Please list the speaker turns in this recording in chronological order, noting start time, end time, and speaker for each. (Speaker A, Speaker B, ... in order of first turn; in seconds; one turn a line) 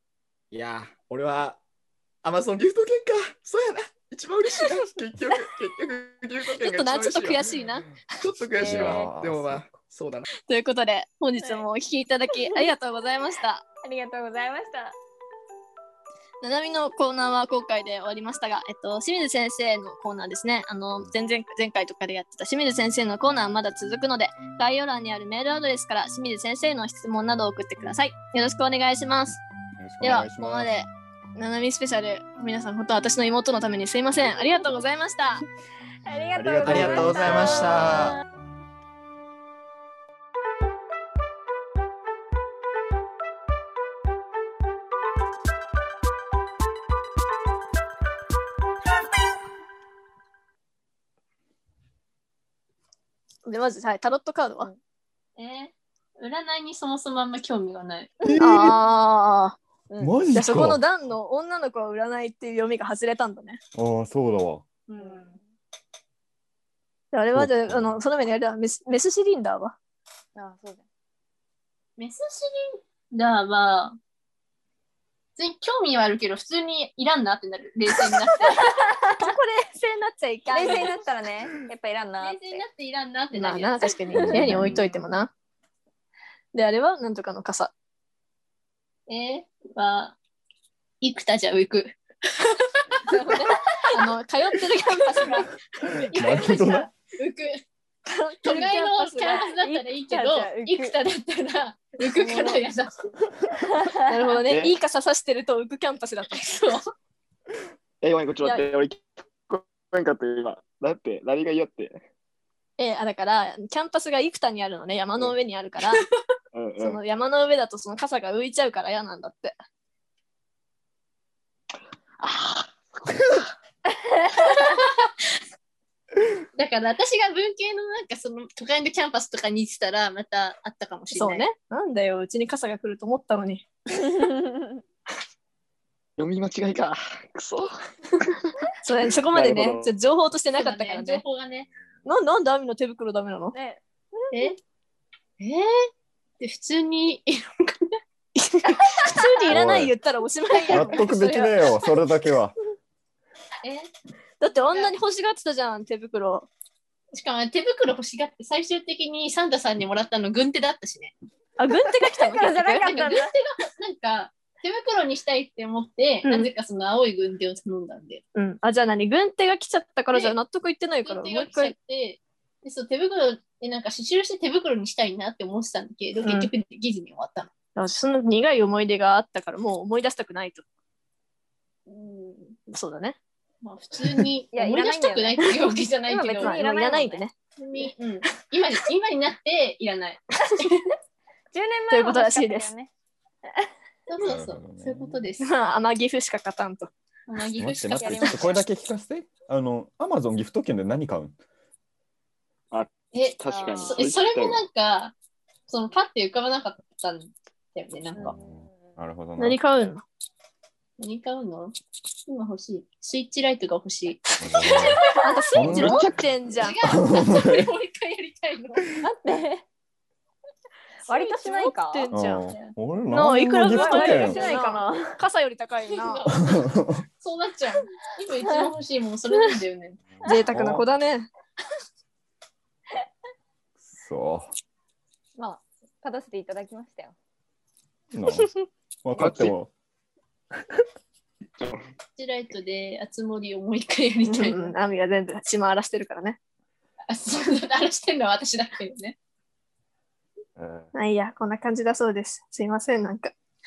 Speaker A: 0.5-1.6
Speaker A: 2.2-10.3
Speaker B: 6.5-7.8
Speaker C: 8.6-9.7
Speaker D: 8.6-9.0
Speaker B: 10.5-13.6
Speaker D: 13.8-14.9
Speaker B: 16.4-29.4
Speaker C: 29.8-30.7
Speaker B: 30.0-35.4
Speaker D: 36.0-38.2
Speaker C: 36.4-38.1
Speaker A: 36.6-38.2
Speaker B: 53.5-54.7
Speaker E: 55.4-58.1
Speaker C: 58.2-58.8
Speaker B: 58.4-59.6
Speaker C: 60.0-60.8
Speaker B: 60.3-63.6
Speaker C: 63.7-64.6
Speaker E: 64.9-65.3
Speaker D: 65.0-65.4
Speaker B: 67.1-69.8
Speaker C: 67.3-68.0
Speaker D: 70.3-70.8
Speaker E: 72.0-74.0
Speaker E: 75.4-78.6
Speaker D: 78.4-79.2
Speaker B: 79.2-80.9
Speaker D: 80.5-82.6
Speaker E: 82.2-84.7
Speaker B: 83.3-85.3
Speaker C: 84.1-84.8
Speaker B: 86.5-87.7
Speaker E: 89.1-90.2
Speaker E: 91.0-92.0
Speaker B: 93.1-95.5
Speaker D: 93.5-93.8
Speaker C: 96.0-96.9
Speaker E: 96.1-97.4
Speaker B: 98.0-99.4
Speaker E: 98.4-103.2
Speaker D: 98.5-101.0
Speaker B: 102.2-102.6
Speaker D: 102.2-102.6
Speaker D: 103.5-104.1
Speaker B: 104.0-106.5
Speaker E: 106.3-106.8
Speaker A: 108.0-112.0
Speaker B: 112.8-116.0
Speaker A: 116.5-117.0
Speaker B: 116.8-119.6
Speaker D: 123.9-124.7
Speaker E: 126.5-131.5
Speaker B: 131.1-133.7
Speaker D: 133.9-134.8
Speaker A: 136.2-137.7
Speaker B: 138.8-141.2
Speaker A: 139.3-139.8
Speaker E: 139.6-139.8
Speaker E: 140.5-141.7
Speaker B: 142.0-143.6
Speaker D: 143.5-144.5
Speaker E: 144.3-144.6
Speaker E: 145.4-145.7
Speaker E: 146.4-148.0
Speaker B: 148.3-151.6
Speaker C: 149.5-149.9
Speaker C: 150.7-152.5
Speaker B: 154.4-156.5
Speaker E: 154.7-154.9
Speaker E: 157.1-161.1
Speaker B: 161.6-162.5
Speaker D: 162.3-163.3
Speaker E: 162.4-168.2
Speaker B: 166.2-166.5
Speaker B: 168.3-171.7
Speaker E: 170.1-170.3
Speaker E: 171.0-177.5
Speaker B: 176.2-176.5
Speaker B: 177.8-180.6
Speaker B: 182.2-183.2
Speaker E: 183.6-186.7
Speaker D: 184.5-187.2
Speaker B: 186.4-187.4
Speaker E: 187.5-190.8
Speaker D: 191.5-192.9
Speaker B: 191.9-192.7
Speaker E: 194.1-195.5
Speaker C: 194.2-195.3
Speaker B: 195.4-196.9
Speaker E: 197.3-198.6
Speaker C: 197.6-201.3
Speaker D: 197.9-198.5
Speaker E: 203.1-205.1
Speaker D: 203.5-204.1
Speaker A: 203.5-204.6
Speaker C: 203.6-204.2
Speaker E: 205.7-208.3
Speaker D: 208.1-208.8
Speaker C: 208.2-209.6
Speaker B: 209.4-210.0
Speaker E: 211.0-211.7
Speaker E: 212.3-214.7
Speaker C: 214.4-215.0
Speaker D: 214.8-215.2
Speaker B: 215.0-216.8
Speaker C: 215.5-216.1
Speaker E: 215.7-218.9
Speaker C: 216.8-217.7
Speaker D: 219.0-219.7
Speaker D: 221.1-222.1
Speaker B: 221.1-226.2
Speaker C: 222.1-224.4
Speaker D: 223.7-225.1
Speaker E: 225.8-226.7
Speaker C: 226.4-227.0
Speaker E: 227.2-230.1
Speaker B: 230.2-231.3
Speaker C: 230.3-230.8
Speaker C: 233.8-234.5
Speaker D: 235.3-237.1
Speaker C: 238.1-238.5
Speaker C: 239.0-239.7
Speaker A: 239.2-239.5
Speaker E: 242.2-244.8
Speaker B: 244.2-246.4
Speaker E: 247.1-249.2
Speaker C: 250.6-250.8
Speaker B: 250.9-253.3